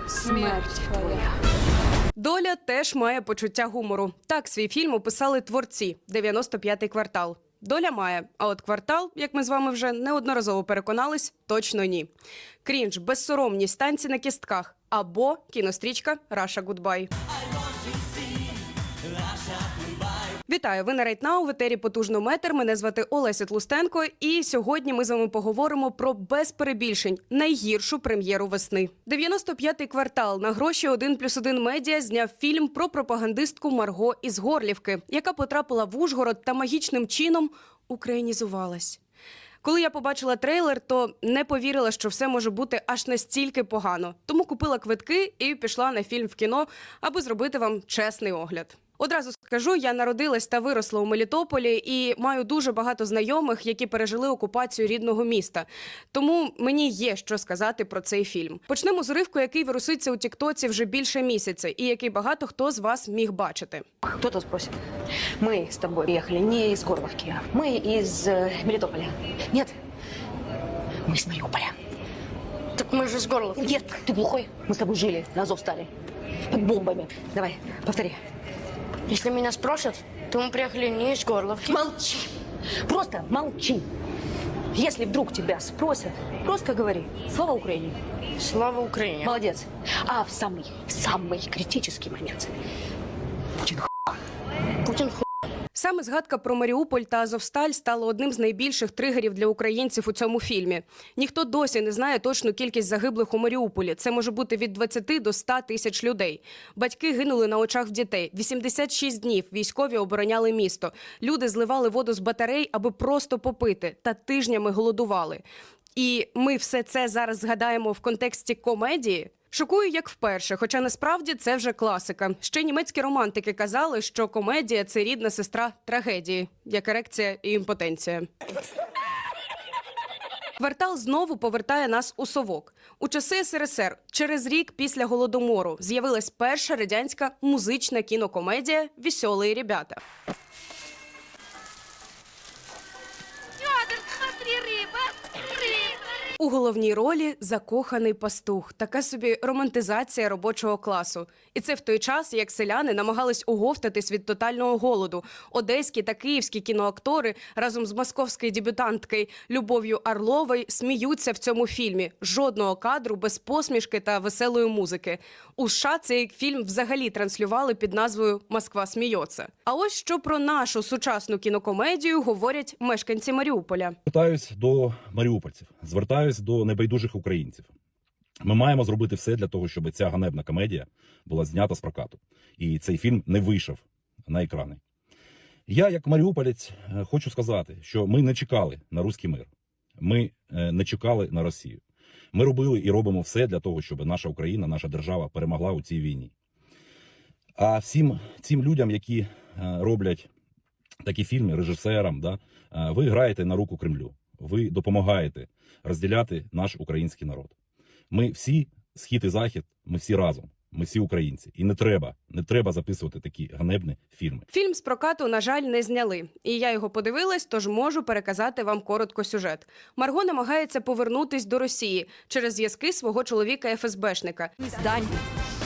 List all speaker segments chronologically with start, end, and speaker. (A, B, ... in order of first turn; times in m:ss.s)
0:00.2-0:00.9 A
0:02.2-0:12.1 B
0:12.6-0:17.1 B
0:20.5-0:39.0 B
0:39.6-1:03.8 B
1:04.2-1:04.7 A
1:05.4-1:09.7 A
1:11.1-1:11.7 A
1:12.8-1:13.6 C
1:13.6-1:15.9 A
1:16.5-1:18.2 A
1:19.1-1:21.7 C
1:21.7-1:22.3 A
1:22.9-1:23.8 A
1:24.7-1:28.0 A
1:28.4-1:29.3 C
1:29.2-1:32.5 A
1:34.9-1:35.2 C
1:35.8-1:55.4 B
1:56.0-2:08.3 B
2:10.6-2:20.0 B
2:26.4-2:54.0 B
2:54.1-2:57.7 D
2:58.4-3:04.8 D
3:05.7-3:09.5 D
3:10.0-3:11.8 D
3:12.3-3:16.3 D
3:17.6-3:20.3 D
3:21.0-3:27.5 D
3:28.1-3:34.5 D
3:34.5-3:44.5 B
3:44.8-3:45.1 A